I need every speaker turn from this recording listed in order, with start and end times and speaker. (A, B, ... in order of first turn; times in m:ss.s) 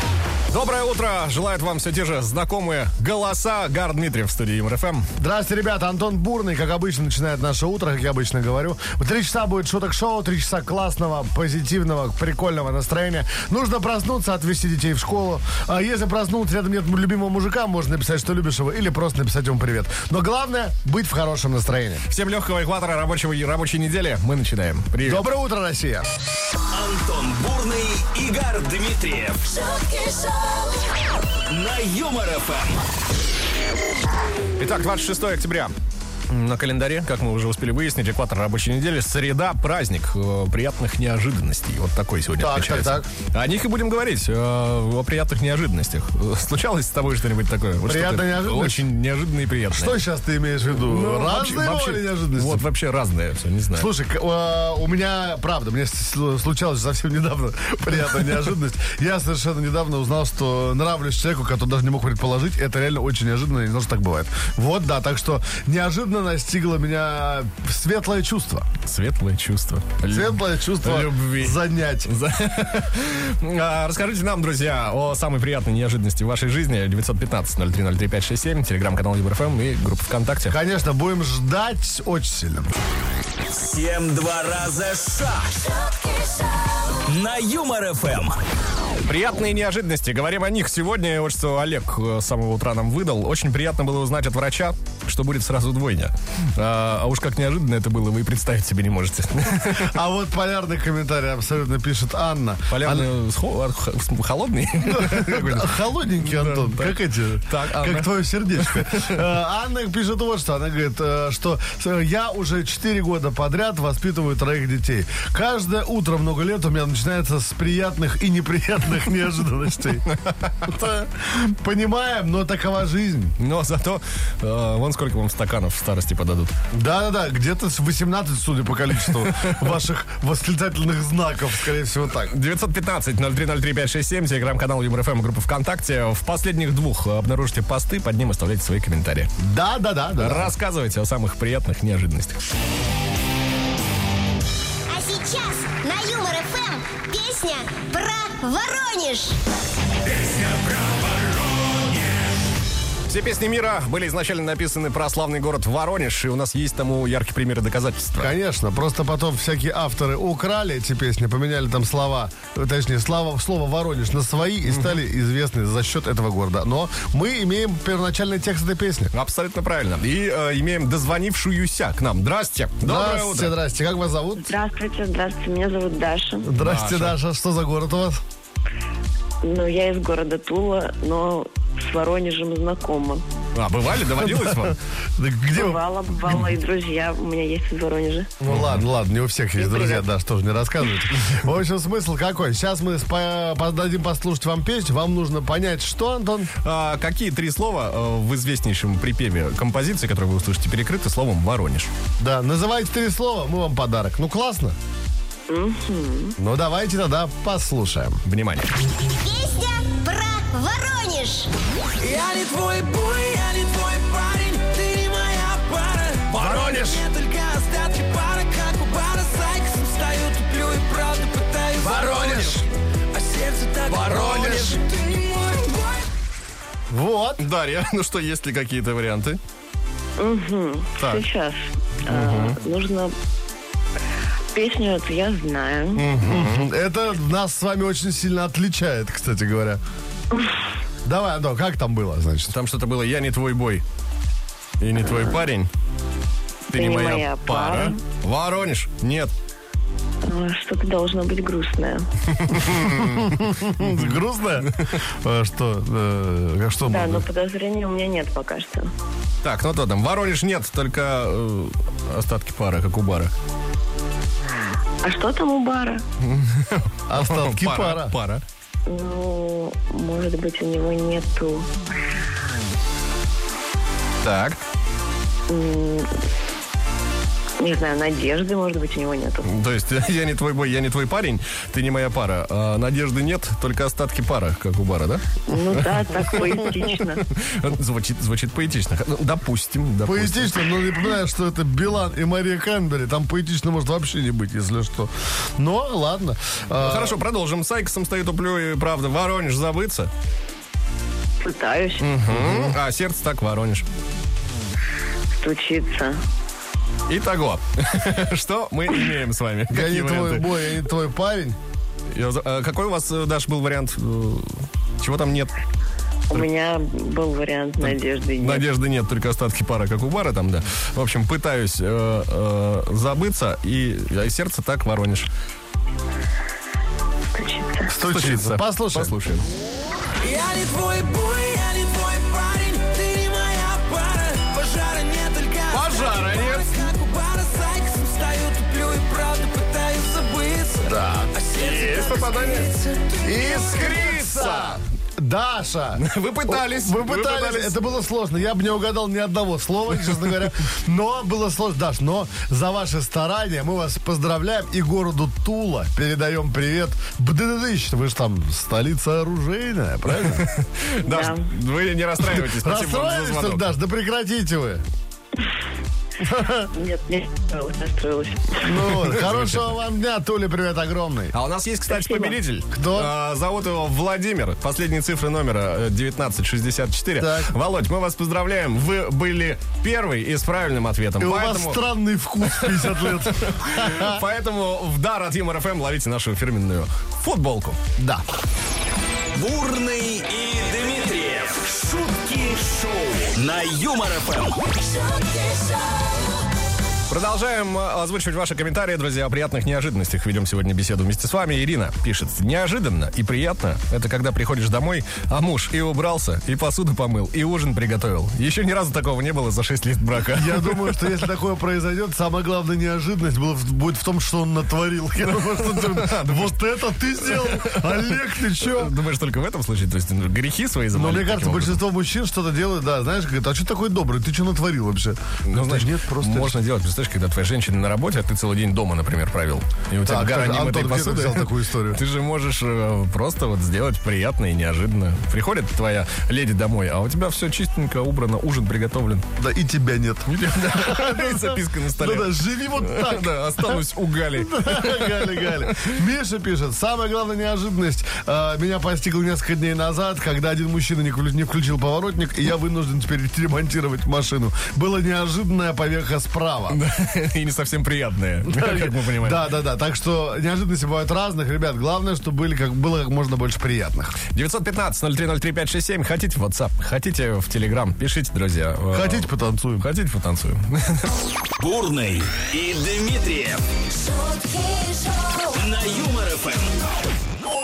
0:00.5-0:05.0 A
0:05.2-0:22.1 B
0:22.1-0:25.2 A
0:25.0-0:26.1 B
0:26.7-0:30.7 C
0:31.5-0:32.9 C
0:34.6-0:35.7 A
0:36.3-0:50.0 A
0:42.4-0:43.0 B
0:47.8-0:48.8 B
0:49.7-0:52.6 B
0:50.8-0:53.9 A
0:53.7-1:08.7 B
1:08.8-1:20.6 A
1:10.1-1:12.1 B
1:20.4-1:22.7 B
1:23.5-1:26.1 C
1:26.9-1:28.4 C
1:29.0-1:39.9 A
1:39.6-1:43.1 B
1:42.7-1:49.2 A
1:44.8-2:00.0 B
2:00.1-2:00.5 A
2:00.6-2:03.4 B
2:03.4-2:06.5 A
2:06.7-2:12.3 B
2:09.2-2:09.7 A
2:12.3-2:19.3 A
2:19.4-2:20.5 B
2:20.2-2:22.4 A
2:24.9-2:29.4 D
2:30.2-2:32.2 C
2:33.1-2:38.4 A
2:38.2-2:49.1 B
2:44.7-2:45.0 A
2:49.1-2:53.6 A
2:52.8-2:54.5 B
2:54.4-2:56.5 E
2:56.4-2:58.2 B
2:56.6-2:57.2 A
2:59.4-3:03.2 E
3:03.5-3:04.8 A
3:04.2-3:05.8 B
3:05.5-3:08.3 E
3:08.4-3:16.5 B
3:08.5-3:08.8 A
3:09.6-3:10.0 E
3:16.6-3:21.9 A
3:22.2-3:24.8 B
3:25.5-3:26.4 E
3:26.4-3:28.2 B
3:28.2-3:28.7 A
3:29.0-3:31.5 D
3:32.0-3:46.0 F
3:36.3-3:37.0 A
3:41.8-3:42.6 B
3:43.9-3:44.8 A
3:44.2-3:44.4 B
3:46.9-3:47.4 B
3:47.4-3:49.4 A
3:50.2-3:53.1 E
3:52.1-3:52.6 A
3:54.5-3:56.0 E
3:56.0-3:56.7 A
3:56.2-3:59.8 B
4:01.0-4:02.5 B
4:02.5-4:03.8 A
4:04.8-4:05.7 A
4:05.0-4:05.4 E
4:06.7-4:08.0 E
4:06.7-4:09.3 A
4:10.2-4:12.1 E
4:12.4-4:13.3 A
4:12.9-4:17.2 B
4:16.8-4:18.9 E
4:19.4-4:23.3 A
4:25.0-4:26.0 E
4:26.2-4:28.4 A
4:27.1-4:28.2 B
4:28.8-4:31.7 E
4:34.2-4:34.6 A
4:35.5-4:36.1 E
4:37.6-4:39.5 E
4:39.4-4:50.7 A
4:45.5-4:47.2 E
4:50.0-4:57.2 B
4:56.8-5:00.1 A
5:01.4-5:02.1 E
5:02.0-5:03.8 A
5:02.3-5:02.8 B
5:05.3-5:06.2 E
5:07.1-5:10.5 A
5:09.7-5:11.6 B
5:12.1-5:15.5 A
5:16.3-5:18.6 E
5:17.8-5:25.3 A
5:27.3-5:27.9 E
5:27.9-5:29.1 B
5:28.0-5:29.4 A
5:30.2-5:43.4 F
5:35.7-5:36.8 A
5:40.8-5:41.3 B
5:41.6-5:42.7 A
5:43.2-6:00.5 B
5:43.5-5:44.8 A
5:46.0-5:47.8 A
5:50.0-5:50.5 A
6:00.1-6:03.7 A
6:01.0-6:01.5 E
6:02.2-6:04.8 B
6:06.2-6:06.7 B
6:06.7-6:08.8 E
6:08.6-6:11.3 B
6:09.0-6:09.7 A
6:11.3-6:21.8 A
6:11.9-6:12.4 E
6:12.7-6:13.1 B
6:17.2-6:17.5 B
6:21.2-6:24.2 B
6:22.4-6:27.8 A
6:28.0-6:28.2 B
6:29.3-6:35.7 C
6:37.1-6:51.2 A
6:50.3-6:59.0 B
6:55.2-7:01.8 A
7:00.9-7:06.5 B
7:05.4-7:19.2 A
7:10.0-7:12.0 B
7:19.4-7:23.8 B
7:20.3-7:25.9 A
7:24.3-7:36.8 B
7:36.7-7:39.4 A
7:38.4-7:44.2 B
7:44.3-7:51.1 A
7:48.9-7:49.9 B
7:51.6-7:54.6 C
7:55.3-7:56.8 C